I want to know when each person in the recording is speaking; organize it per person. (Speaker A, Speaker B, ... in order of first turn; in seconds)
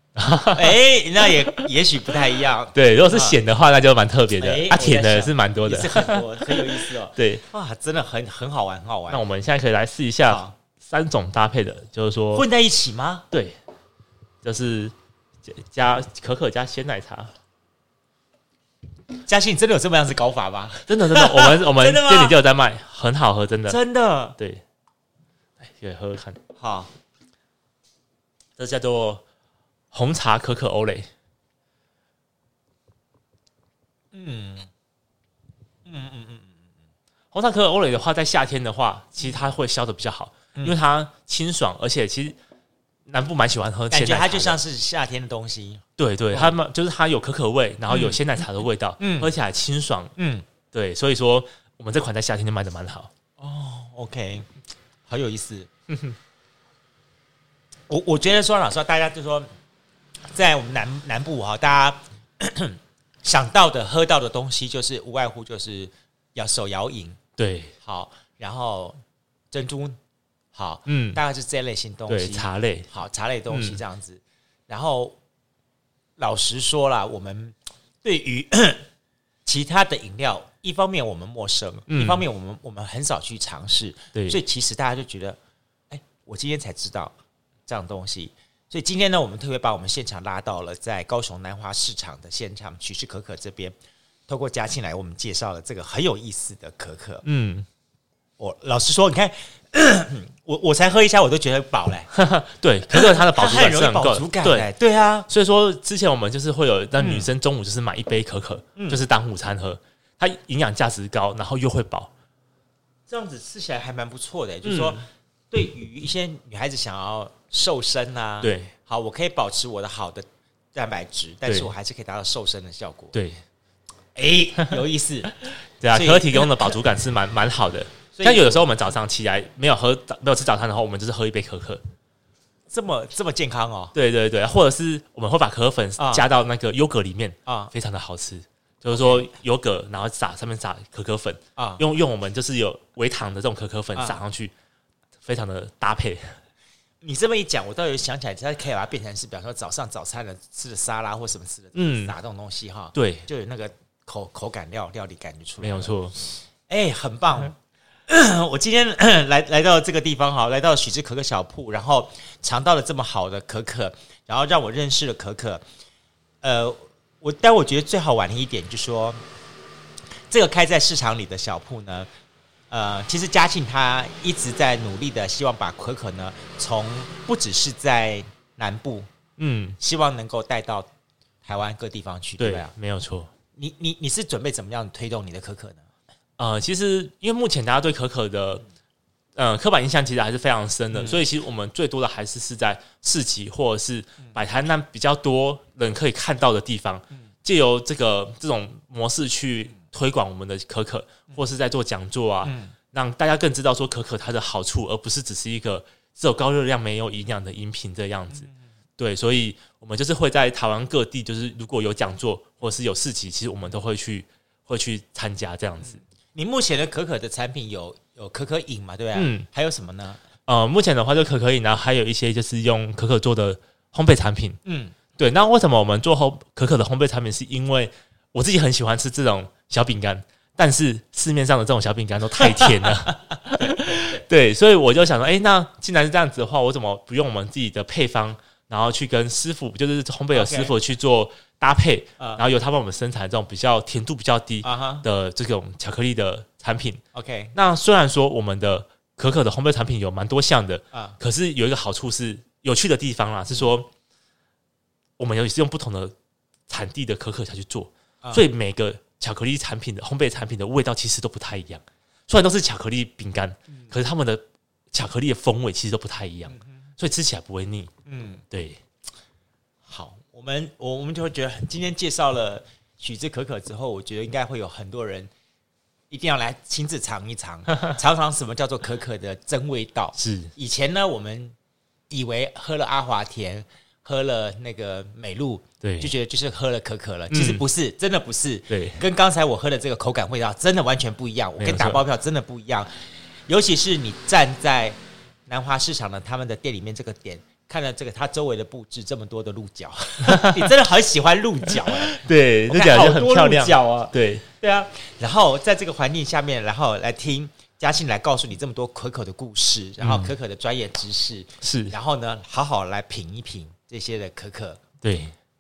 Speaker A: 0.2-0.8, 2.7-7.4, 9.1-12.5, 13.3-13.6, 14.4-14.9, 15.5-17.3, 20.9-23.8, 25.6-26.4, 28.6-29.2, 29.9-31.1, 37.3-42.4, 43.1-44.6, 46.0-50.1, 50.7-53.1, 55.9-56.1, 67.4-67.8, 70.9-71.2, 72.1-72.9, 73.5-73.8, 81.9-82.2, 97.2-97.7, 102.1-104.7, 105.3-112.1, 114.6-115.0, 118.4-118.7, 121.5-121.7, 123.1-123.4, 125.5-131.8, 133.9-144.5, 145.2-146.4, 151.8-152.1, 152.9-153.3, 155.6-156.2, 179.4-179.8, 182.4-183.3, 186.4-188.7, 189.4-216.0, 219.2-219.5, 220.5-224.6, 225.2-247.0, 247.6-253.9, 255.2-256.1, 256.7-267.9, 268.5-268.8, 280.2-280.5, 285.8-286.1, 287.3-287.6, 288.7-289.0, 291.6-292.0, 300.2-300.7, 301.7-304.4, 310.0-310.3, 311.6-311.9, 315.0-315.3
Speaker B: 0.5-3.4, 4.4-9.2, 10.3-10.6, 12.3-13.3, 19.2-22.4, 23.7-24.4, 26.6-26.9, 34.1-34.7, 35.9-36.6, 43.9-46.6, 47.9-48.2, 49.0-49.3, 50.2-50.5, 53.4-54.5, 55.1-55.7, 57.9-59.5, 60.3-67.2, 67.8-69.0, 69.5-70.0, 70.5-75.2, 76.2-78.9, 79.5-85.4, 85.9-87.2, 87.7-93.8, 94.3-97.2, 98.4-102.1, 102.9-105.3, 107.0-107.3, 108.8-109.0, 113.1-123.2, 124.2-126.7, 128.2-128.6, 132.7-133.9, 136.0-136.3, 137.5-137.7, 138.9-139.3, 141.6-141.8, 147.0-157.6, 158.1-165.6, 166.4-169.2, 170.3-172.1, 172.7-179.1, 179.8-180.9, 181.4-182.7, 183.6-185.9, 190.9-191.2, 202.4-202.8, 215.9-220.2, 224.7-224.9, 232.4-234.2, 240.3-240.7, 244.6-245.1, 247.1-247.6, 250.9-251.2, 266.5-266.8, 268.1-268.4, 269.9-275.3, 276.1-281.6, 282.1-292.9, 293.5-302.2, 302.7-314.8